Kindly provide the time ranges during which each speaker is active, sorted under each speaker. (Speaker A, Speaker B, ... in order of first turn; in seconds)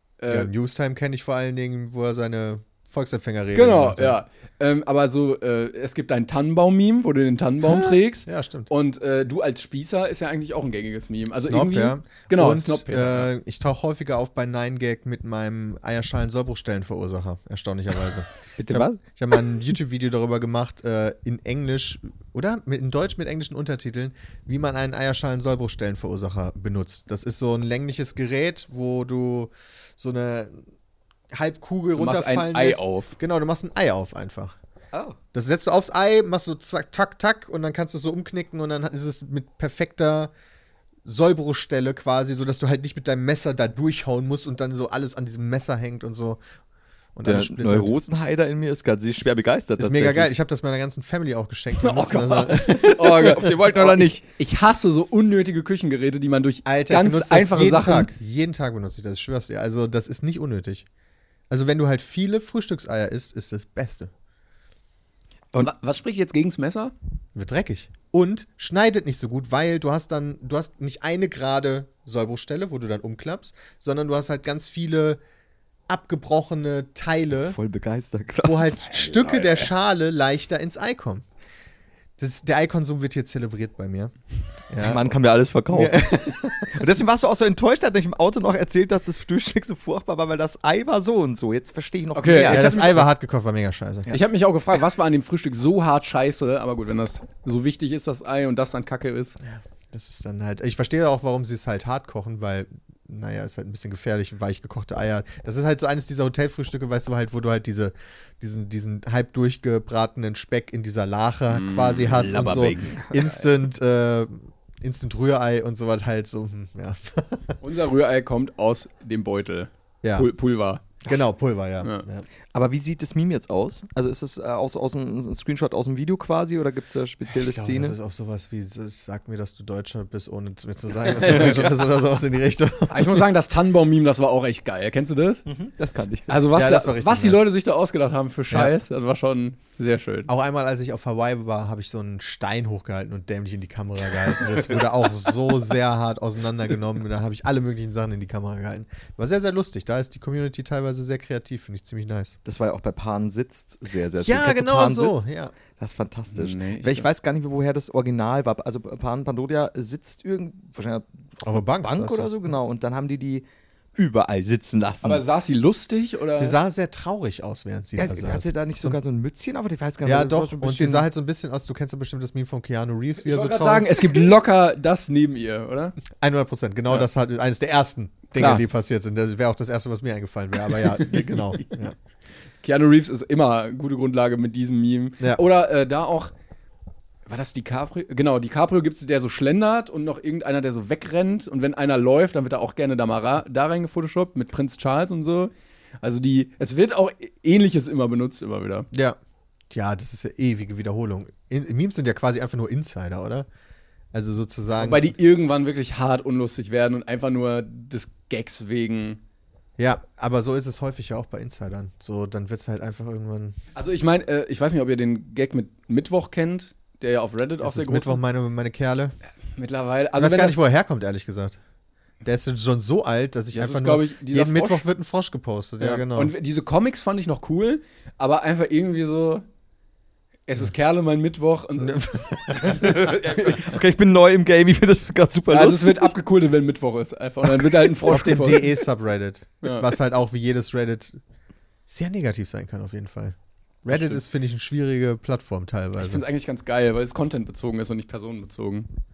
Speaker A: 0.2-0.5, 3.5-13.3, 32.0-33.2, 51.8-58.1, 65.6-66.9, 79.2-79.5, 92.1-93.1, 94.1-99.4, 111.5-113.3, 117.6-120.8, 131.1-131.7, 132.9-135.5, 136.3-140.3, 156.3-157.1, 165.0-166.6, 173.2-176.0, 178.4-178.6, 181.0-181.6, 182.6-186.3, 187.3-198.9, 204.8-209.2, 213.8-218.2, 219.6-220.6, 223.5-224.8, 225.8-229.4, 230.5-233.7, 235.5-238.7, 243.9-244.2, 246.0-248.9
Speaker B: 0.3-4.2, 7.6-8.7, 11.4-30.6, 31.3-34.5, 35.3-40.3, 41.0-46.4, 47.1-48.0, 49.8-53.3, 56.7-60.9, 61.5-64.1, 67.3-75.2, 75.9-77.6, 78.4-81.2, 82.2-84.1, 84.7-85.0, 85.7-86.7, 92.5-94.1, 99.4-117.6, 120.0-120.3, 121.0-122.2, 127.3-133.3, 136.5-137.5, 140.3-152.4, 154.2-155.5, 161.4-162.3, 166.3-169.0, 170.0-174.1, 176.1-181.9, 198.9-199.2, 199.7-203.5, 204.1-205.2, 209.8-213.6, 217.6-219.2, 220.2-221.6, 222.2-226.3, 231.8-233.0, 238.1-241.2, 241.9-243.3, 243.9-246.2
Speaker C: 18.6-19.0, 34.9-35.2, 47.2-50.3, 52.6-54.2, 77.5-78.9, 84.8-93.0, 112.2-113.1, 122.5-128.0, 135.5-136.4, 152.4-165.2, 168.0-171.1, 232.6-236.1